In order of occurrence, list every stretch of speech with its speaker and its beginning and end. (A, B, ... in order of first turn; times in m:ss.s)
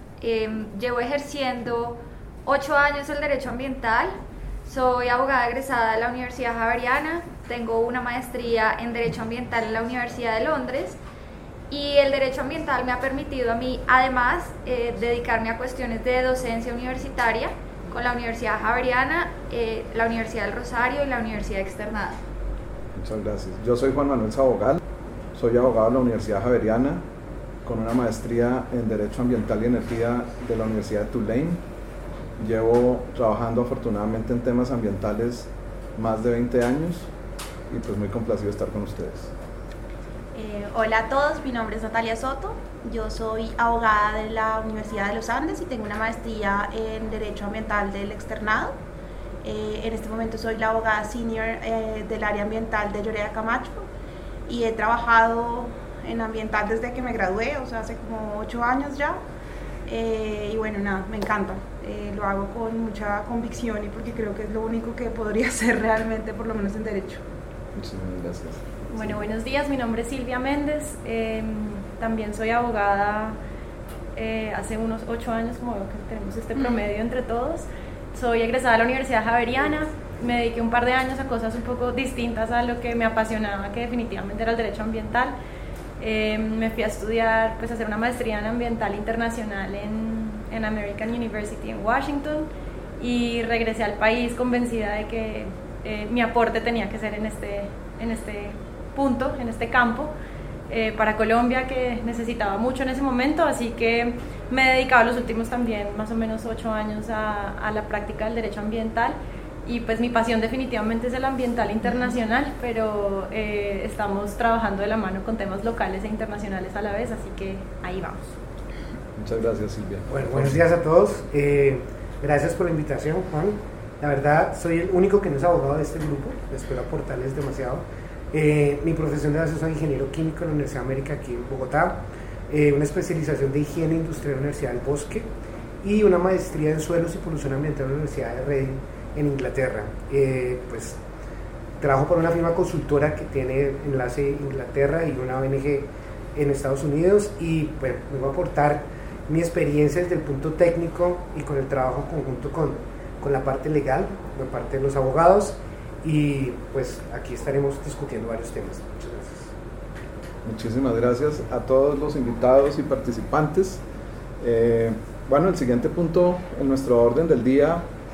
0:00.2-0:11.0 A
0:11.7-0:22.2 A
0:23.0-0:24.8 B
0:25.3-0:27.0 B
0:27.6-0:31.6 B
0:32.4-0:37.1 B
0:37.7-0:39.3 B
0:40.4-0:48.7 C
0:49.4-0:53.9 C
0:54.5-0:59.2 C
0:59.9-1:07.2 C
1:07.8-1:09.2 B
1:08.9-1:13.4 D
1:14.1-1:25.3 D
1:26.0-1:40.1 D
1:40.7-1:58.3 D
1:59.2-2:00.6 B
2:00.1-2:15.3 E
2:15.8-2:21.0 E
2:21.8-2:39.5 E
2:40.4-2:43.8 B
2:44.4-2:47.9 B